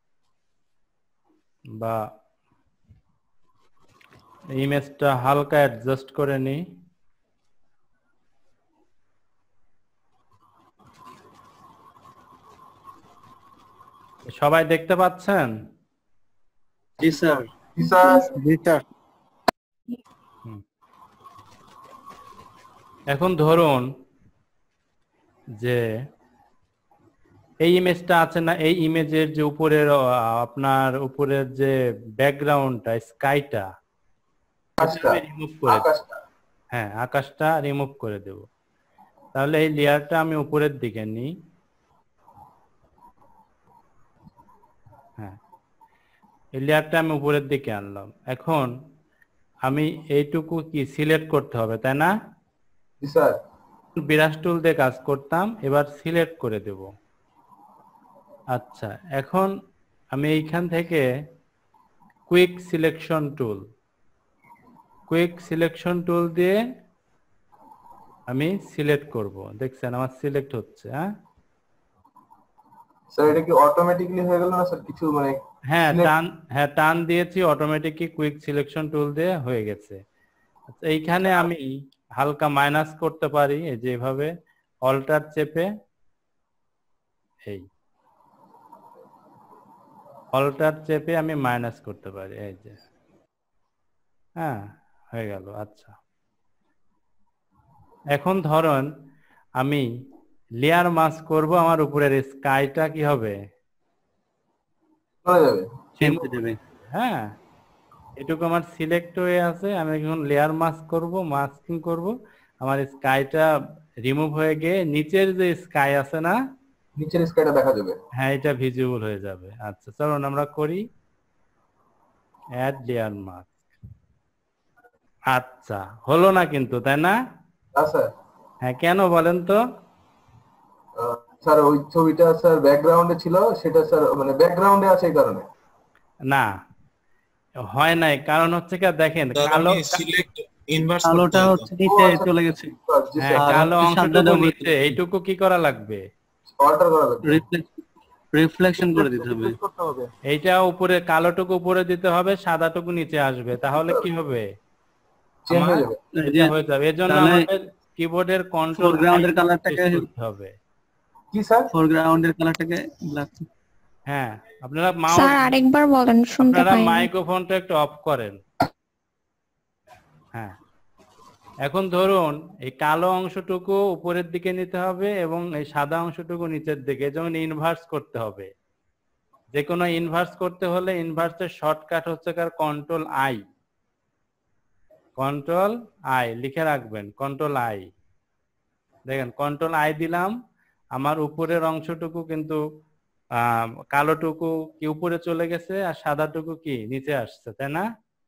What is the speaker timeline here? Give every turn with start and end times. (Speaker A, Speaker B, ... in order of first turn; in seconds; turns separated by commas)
Speaker A: 4.5-6.6, Speaker A: 14.3-15.5, Speaker B: 17.0-17.5, Speaker C: 17.8-18.3, Speaker D: 17.8-18.3, Speaker B: 18.4-18.8, Speaker A: 23.1-23.9, Speaker A: 27.6-33.6, Speaker C: 34.8-36.1, Speaker A: 34.8-35.9, Speaker A: 36.7-38.4, Speaker A: 39.4-41.3, Speaker A: 46.6-48.7, Speaker A: 49.6-52.1, Speaker C: 53.0-53.4, Speaker A: 54.0-56.9, Speaker A: 58.5-59.5, Speaker A: 60.1-61.0, Speaker A: 62.3-63.6, Speaker A: 65.1-66.6, Speaker A: 68.3-71.0, Speaker C: 73.1-75.4, Speaker A: 75.7-80.0, Speaker A: 80.7-81.7, Speaker C: 81.2-81.5, Speaker A: 82.2-84.3, Speaker A: 84.8-85.7, Speaker A: 90.3-92.8, Speaker A: 95.1-95.9, Speaker A: 98.1-98.9, Speaker A: 99.6-99.8, Speaker A: 100.6-103.3, Speaker C: 105.2-105.7, Speaker B: 106.0-106.6, Speaker A: 106.0-106.3, Speaker A: 106.9-107.2, Speaker A: 108.2-113.4, Speaker A: 114.0-116.3, Speaker C: 117.0-118.0, Speaker A: 118.2-120.8, Speaker A: 122.6-123.7, Speaker A: 125.3-127.1, Speaker C: 127.7-128.1, Speaker A: 128.7-129.6, Speaker C: 131.0-135.4, Speaker A: 137.7-140.2, Speaker E: 139.3-141.7, Speaker B: 141.0-142.8, Speaker C: 141.8-143.6, Speaker A: 143.2-146.0, Speaker B: 143.4-145.0, Speaker C: 146.5-147.4, Speaker B: 147.2-147.7, Speaker B: 148.3-149.6, Speaker C: 148.8-150.1, Speaker A: 150.3-154.5, Speaker C: 155.4-156.0, Speaker A: 155.5-160.5, Speaker B: 156.2-156.5, Speaker B: 157.1-157.4, Speaker B: 158.8-160.0, Speaker C: 161.3-161.7, Speaker B: 161.7-163.5, Speaker A: 164.1-165.4, Speaker D: 165.1-167.1, Speaker A: 166.4-168.3, Speaker A: 171.6-178.5, Speaker A: 179.5-183.4, Speaker A: 185.2-187.9, Speaker A: 189.1-190.3, Speaker A: 191.0-192.6, Speaker A: 193.9-197.8